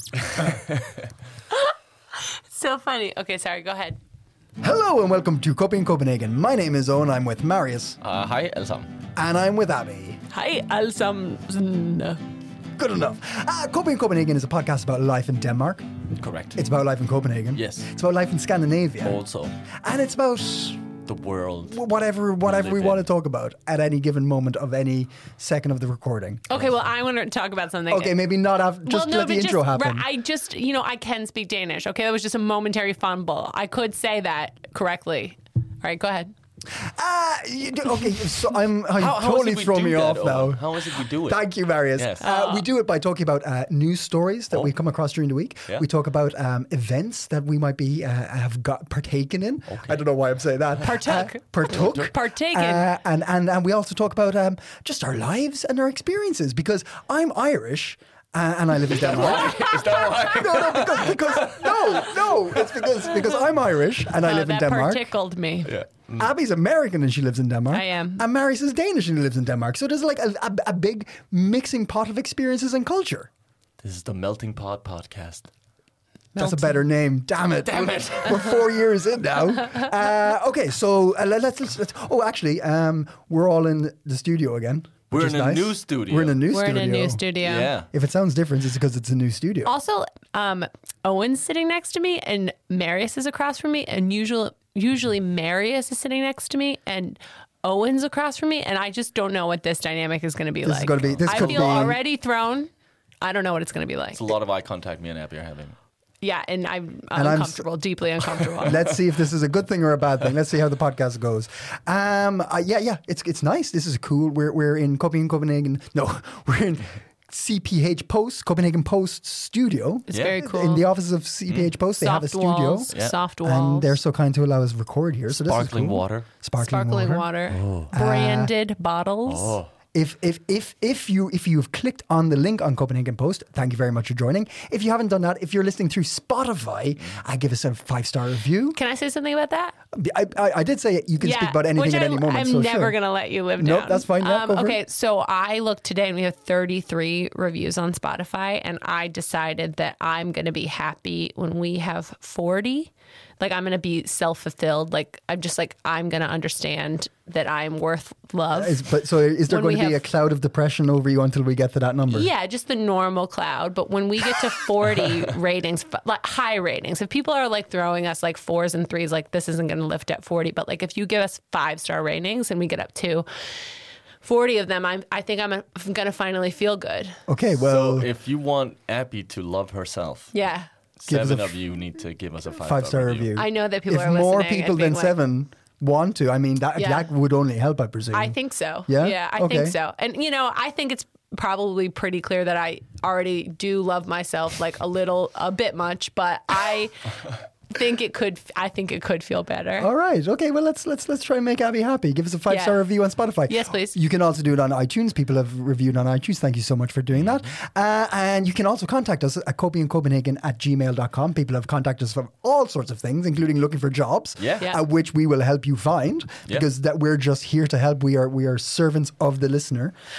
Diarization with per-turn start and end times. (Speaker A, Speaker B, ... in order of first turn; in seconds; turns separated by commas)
Speaker A: 1.5-4.0, Speaker B: 4.6-8.0, Speaker C: 8.0-8.9, Speaker B: 9.1-10.2, Speaker A: 10.3-12.2, Speaker B: 12.8-15.8, Speaker C: 16.2-16.6, Speaker B: 16.6-19.2, Speaker C: 17.6-17.9, Speaker C: 19.0-19.5, Speaker B: 19.8-20.9, Speaker C: 21.0-21.8, Speaker B: 21.7-26.4, Speaker C: 22.4-23.0, Speaker A: 26.5-28.2, Speaker B: 27.9-30.0, Speaker A: 28.8-36.3, Speaker B: 36.8-65.0, Speaker C: 38.9-41.4, Speaker C: 42.0-42.2, Speaker A: 42.2-42.6, Speaker C: 49.7-50.0, Speaker A: 50.8-52.8, Speaker C: 51.7-52.1, Speaker C: 58.9-63.1, Speaker A: 59.5-60.1, Speaker A: 64.2-65.7, Speaker C: 65.6-66.3, Speaker B: 66.2-73.3, Speaker A: 67.7-68.2, Speaker C: 73.8-75.5, Speaker A: 76.3-76.8, Speaker B: 76.3-87.2, Speaker C: 77.6-78.7, Speaker C: 85.1-86.4, Speaker A: 86.5-87.7, Speaker C: 87.4-87.9, Speaker B: 87.9-89.7, Speaker A: 89.6-102.7, Speaker B: 100.6-102.0, Speaker C: 101.0-101.9, Speaker A: 103.2-104.3, Speaker C: 104.1-105.7, Speaker A: 106.2-108.8, Speaker B: 107.1-107.6, Speaker B: 108.6-122.9, Speaker A: 120.1-120.8, Speaker C: 120.1-120.4, Speaker A: 122.0-123.9, Speaker C: 122.9-123.2, Speaker B: 123.4-127.3, Speaker C: 125.4-126.3, Speaker A: 126.6-129.6, Speaker C: 127.5-127.9, Speaker B: 127.9-128.5, Speaker C: 129.2-129.7, Speaker B: 129.9-138.8, Speaker A: 138.8-139.7, Speaker B: 139.9-142.9, Speaker A: 141.2-158.9, Speaker B: 143.6-144.8, Speaker B: 158.5-162.3, Speaker A: 159.5-160.0, Speaker A: 162.1-173.2, Speaker A: 174.2-177.2, Speaker B: 177.3-178.1, Speaker C: 177.6-180.3, Speaker A: 180.3-180.7, Speaker C: 181.0-183.3, Speaker B: 181.1-181.6, Speaker B: 182.6-188.3, Speaker A: 183.3-185.1, Speaker A: 186.8-187.1, Speaker A: 188.1-196.9, Speaker B: 188.9-189.7, Speaker A: 197.7-199.9, Speaker B: 199.8-219.9, Speaker A: 202.5-202.8, Speaker A: 203.5-203.9, Speaker C: 214.4-214.7